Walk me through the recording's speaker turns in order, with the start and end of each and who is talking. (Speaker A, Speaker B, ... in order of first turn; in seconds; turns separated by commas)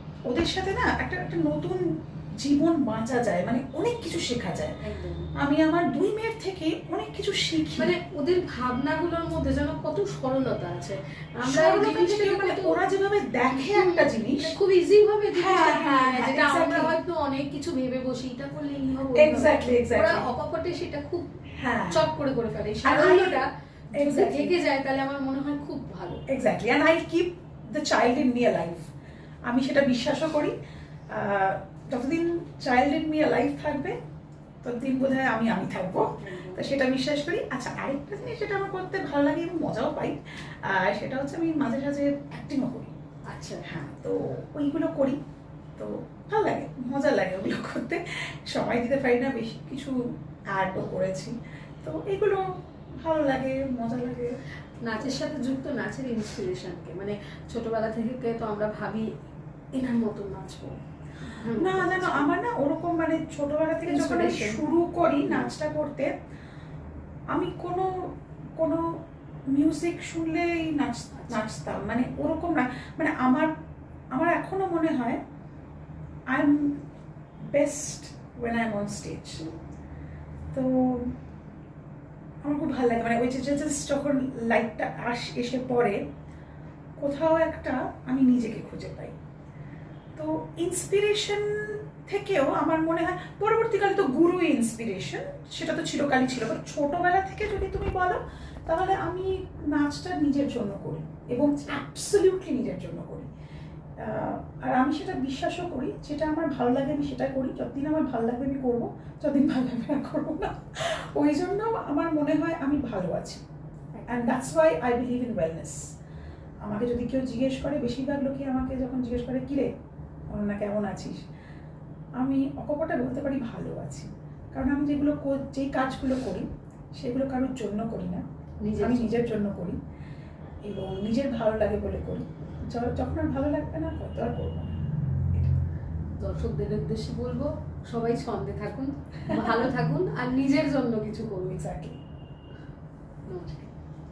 Speaker A: 0.3-4.8, Speaker B: 4.8-5.3, Speaker A: 5.4-8.0, Speaker B: 7.8-12.8, Speaker A: 11.4-14.6, Speaker B: 13.5-21.3, Speaker A: 15.3-16.9, Speaker A: 19.1-20.3, Speaker A: 21.6-22.0, Speaker B: 21.9-26.2, Speaker A: 22.8-24.5, Speaker A: 26.3-28.9, Speaker A: 29.4-30.5, Speaker A: 31.1-34.0, Speaker A: 34.6-42.9, Speaker B: 36.2-36.6, Speaker B: 43.3-43.6, Speaker A: 43.6-45.2, Speaker A: 45.8-50.0, Speaker A: 50.5-52.4, Speaker A: 53.0-54.3, Speaker B: 54.8-59.1, Speaker B: 59.8-60.7, Speaker B: 61.3-62.3, Speaker A: 61.5-66.1, Speaker B: 63.8-64.6, Speaker A: 67.3-68.8, Speaker A: 69.5-73.5, Speaker A: 74.1-75.2, Speaker A: 76.3-76.8, Speaker A: 77.5-79.5, Speaker A: 80.5-81.1, Speaker A: 82.4-86.0, Speaker A: 87.0-89.1, Speaker A: 90.2-103.3, Speaker A: 104.0-113.4, Speaker B: 114.0-114.3, Speaker A: 114.1-115.8, Speaker A: 116.7-119.7, Speaker A: 120.3-121.2, Speaker A: 122.2-128.2, Speaker B: 128.6-129.1, Speaker A: 128.8-129.8, Speaker A: 130.7-134.8, Speaker B: 136.2-141.6, Speaker A: 139.3-139.7, Speaker A: 141.5-142.0, Speaker B: 143.3-143.7